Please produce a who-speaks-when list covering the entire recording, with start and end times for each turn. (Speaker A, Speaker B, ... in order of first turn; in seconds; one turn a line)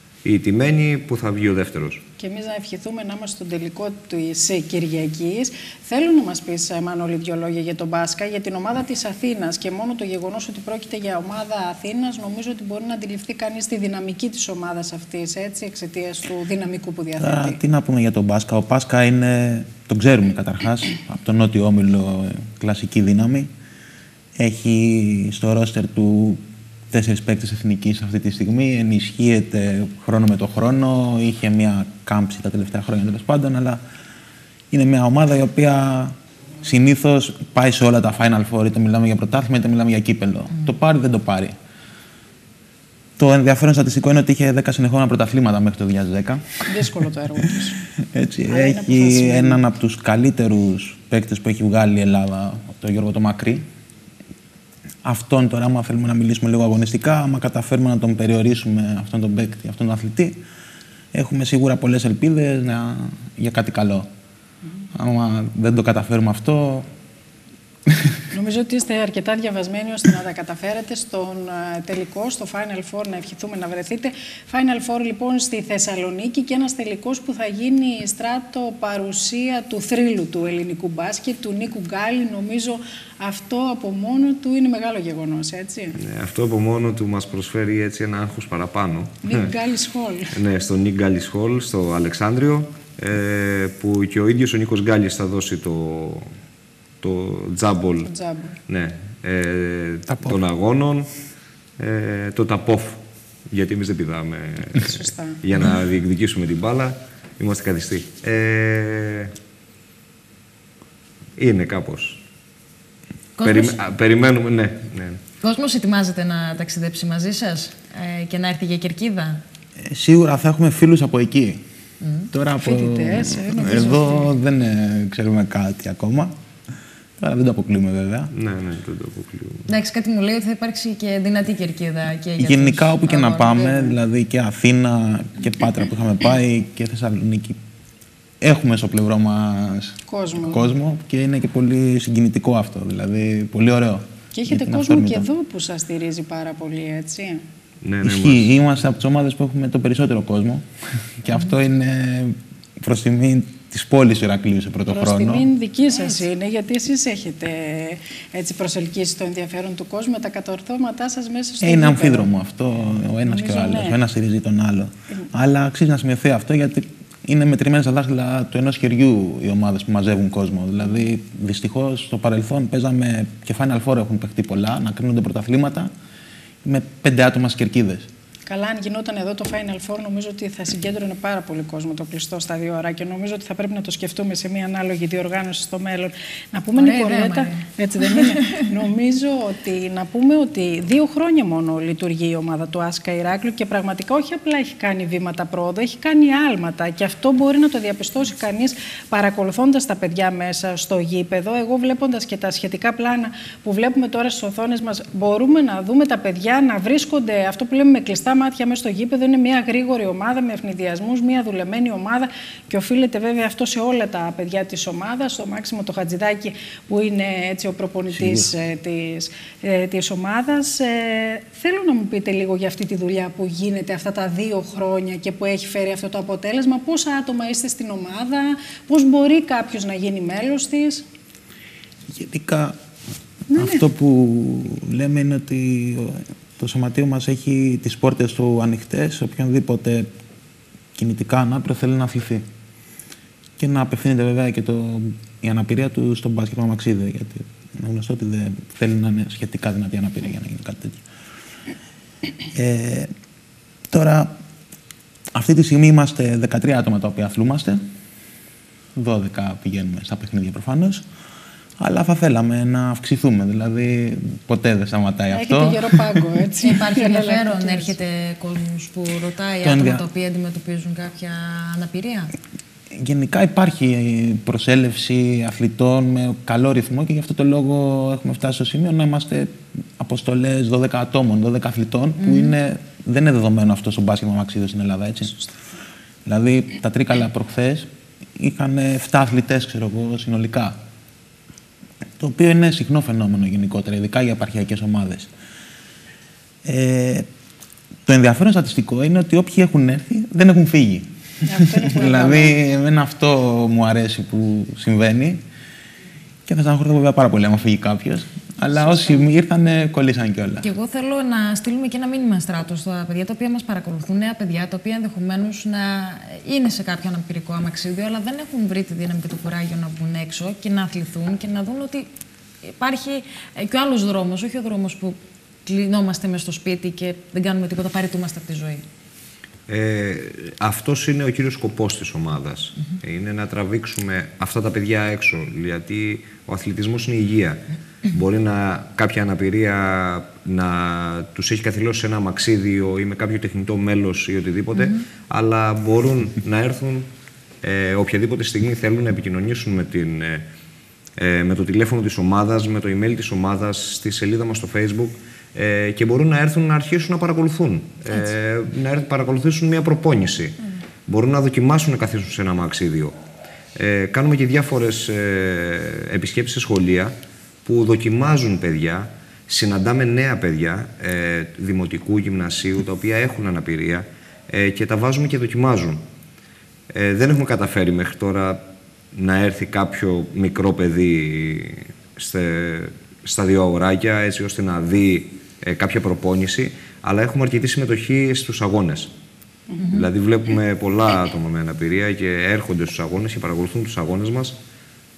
Speaker A: 0.2-2.0
Speaker B: 2.2-17.6
Speaker C: 17.2-23.5
Speaker C: 24.4-33.8
Speaker C: 34.7-41.5
Speaker C: 43.2-46.6
Speaker B: 46.7-47.8
Speaker C: 48.0-53.6
Speaker B: 48.5-49.6
Speaker C: 55.0-60.4
Speaker C: 61.1-64.1
Speaker C: 64.9-66.9
Speaker B: 68.3-86.0
Speaker A: 86.0-89.5
Speaker B: 89.2-90.3
Speaker A: 90.3-96.3
Speaker A: 97.0-98.1
Speaker B: 98.0-98.6
Speaker A: 98.7-101.1
Speaker C: 100.1-100.4
Speaker A: 101.8-109.3
Speaker B: 104.8-105.4
Speaker A: 111.4-112.2
Speaker D: 113.4-113.8
Speaker A: 113.4-115.2
Speaker D: 115.4-119.4
Speaker C: 119.8-121.6
Speaker D: 122.0-122.3
Speaker C: 122.3-126.3
Speaker B: 122.6-124.3
Speaker C: 127.2-128.3
Speaker A: 128.3-129.7
Speaker D: 129.7-134.0
Speaker C: 132.4-137.6
Speaker C: 138.4-145.3
Speaker B: 140.1-140.7
Speaker B: 144.3-147.4
Speaker A: 147.8-148.5
Speaker C: 148.0-150.6
Speaker C: 151.2-155.5
Speaker B: 154.9-162.3
Speaker C: 161.6-175.9
Speaker B: 163.2-164.0
Speaker C: 176.6-178.1
Speaker B: 178.4-231.0
Speaker D: 186.8-188.4
Speaker C: 218.1-218.5
Speaker C: 232.1-232.7
Speaker B: 233.5-233.8
Speaker C: 233.5-240.1
Speaker C: 240.9-242.4
Speaker C: 243.6-251.0
Speaker C: 252.5-253.1
Speaker C: 253.9-254.3
Speaker C: 255.3-257.8
Speaker C: 258.9-261.0
Speaker C: 261.8-265.9
Speaker B: 265.3-267.9
Speaker D: 266.6-272.3
Speaker C: 269.6-270.0
Speaker C: 272.9-285.4
Speaker D: 282.2-282.6
Speaker C: 286.2-290.8
Speaker C: 292.2-295.3
Speaker C: 296.6-297.3
Speaker C: 298.1-301.1
Speaker B: 301.4-302.6
Speaker C: 301.8-305.4
Speaker C: 306.4-310.7
Speaker D: 310.6-322.1
Speaker D: 322.6-328.8
Speaker A: 329.7-347.1
Speaker A: 347.6-350.4
Speaker A: 351.2-363.1
Speaker A: 363.8-376.0
Speaker A: 376.9-378.6
Speaker A: 379.1-389.1
Speaker B: 389.7-390.0
Speaker D: 389.8-390.1
Speaker A: 389.9-394.6